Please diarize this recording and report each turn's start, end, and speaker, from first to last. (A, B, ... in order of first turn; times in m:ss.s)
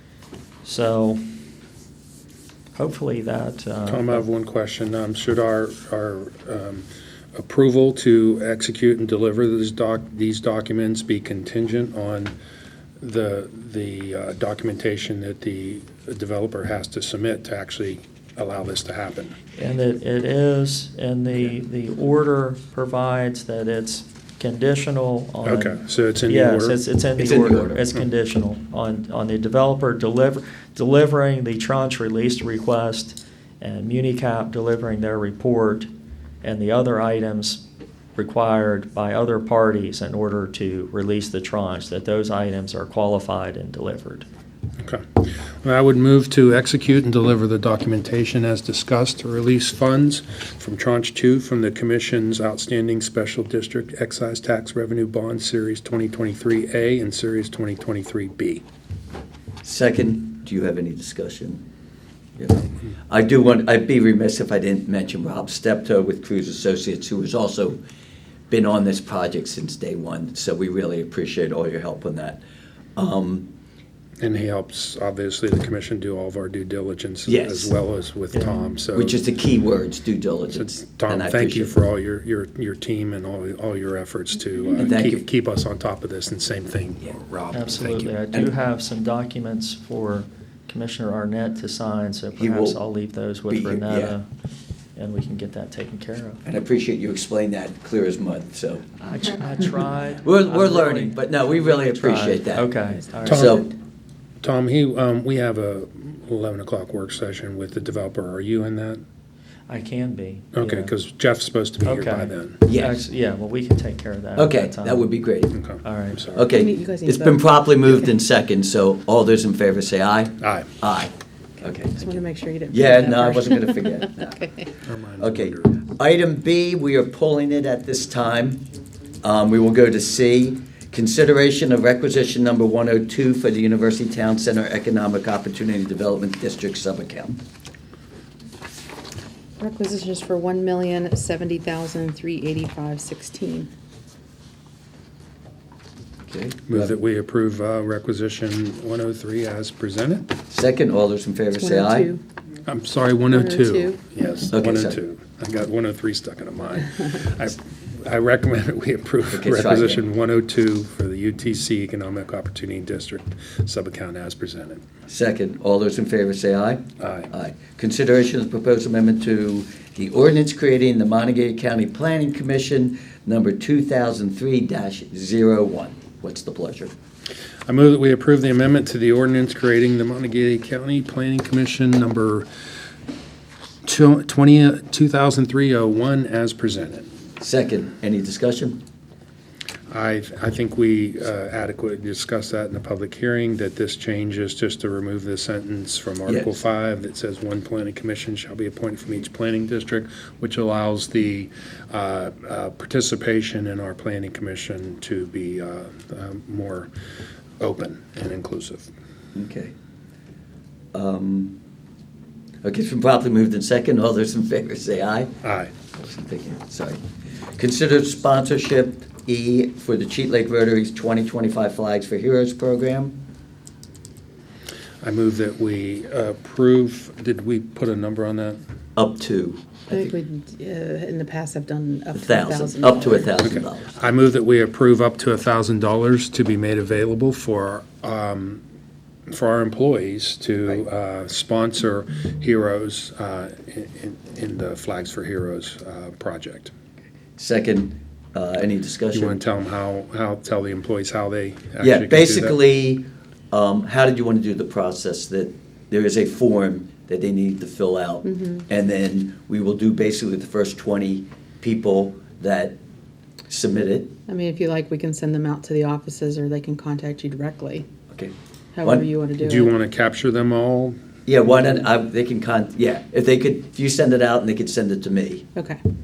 0:00.6-0:01.3 A
0:02.7-0:04.2 A
0:03.8-0:12.3 B
0:13.0-0:19.3 B
0:19.6-0:35.9 A
0:25.4-0:26.8 B
0:27.2-0:27.8 C
0:36.4-0:37.6 A
0:38.2-0:44.3 A
0:44.8-0:58.6 B
0:59.6-1:01.6 C
1:02.4-1:07.8 C
1:08.5-1:12.4 C
1:13.0-1:13.5 C
1:14.2-1:19.2 B
1:17.3-1:17.7 C
1:18.3-1:18.6 A
1:19.0-1:21.7 C
1:20.5-1:28.1 B
1:24.8-1:25.2 C
1:27.5-1:34.2 A
1:32.4-1:32.8 C
1:33.5-1:34.2 C
1:35.0-1:36.4 A
1:36.4-1:38.9 C
1:39.0-1:43.7 A
1:40.2-1:42.7 C
1:43.2-1:43.6 B
1:43.2-1:43.7 C
1:44.4-1:49.0 B
1:49.7-1:50.9 A
1:50.5-1:52.6 B
1:51.8-1:55.1 A
1:52.7-1:53.0 C
1:54.4-1:55.6 C
1:55.5-1:56.5 B
1:55.8-1:56.2 A
1:56.3-2:02.2 C
1:56.5-1:57.4 D
2:00.4-2:00.7 B
2:02.0-2:04.7 D
2:02.7-2:04.4 C
2:04.8-2:05.8 B
2:05.2-2:08.6 C
2:09.2-2:17.4 C
2:19.6-2:23.7 D
2:26.3-2:26.9 C
2:26.7-2:30.3 B
2:30.5-2:32.1 C
2:31.6-2:32.2 D
2:32.7-2:44.8 B
2:33.3-2:34.0 D
2:34.5-2:35.0 C
2:39.3-2:40.0 C
2:45.1-2:56.9 C
2:47.0-2:47.3 B
2:57.7-3:02.5 B
3:03.8-3:07.1 B
3:07.4-3:08.8 C
3:09.9-3:26.9 B
3:16.2-3:16.6 C
3:27.6-3:28.9 B
3:29.3-3:29.7 C
3:30.9-3:31.6 C
3:32.6-3:35.3 C
3:35.4-3:35.7 B
3:35.9-3:37.0 C
3:37.6-3:43.2 C
3:45.0-3:48.6 B
3:49.0-3:50.1 C
3:49.9-3:53.3 D
3:52.2-3:53.9 C
3:53.4-3:58.6 B
3:59.3-4:06.7 B
4:07.4-4:09.4 C
4:09.1-4:12.6 B
4:11.8-4:22.8 C
4:18.2-4:18.6 D
4:23.5-4:24.1 C
4:24.3-4:27.8 D
4:28.1-4:29.1 C
4:28.7-4:29.7 D
4:29.4-4:31.0 B
4:31.2-4:35.5 C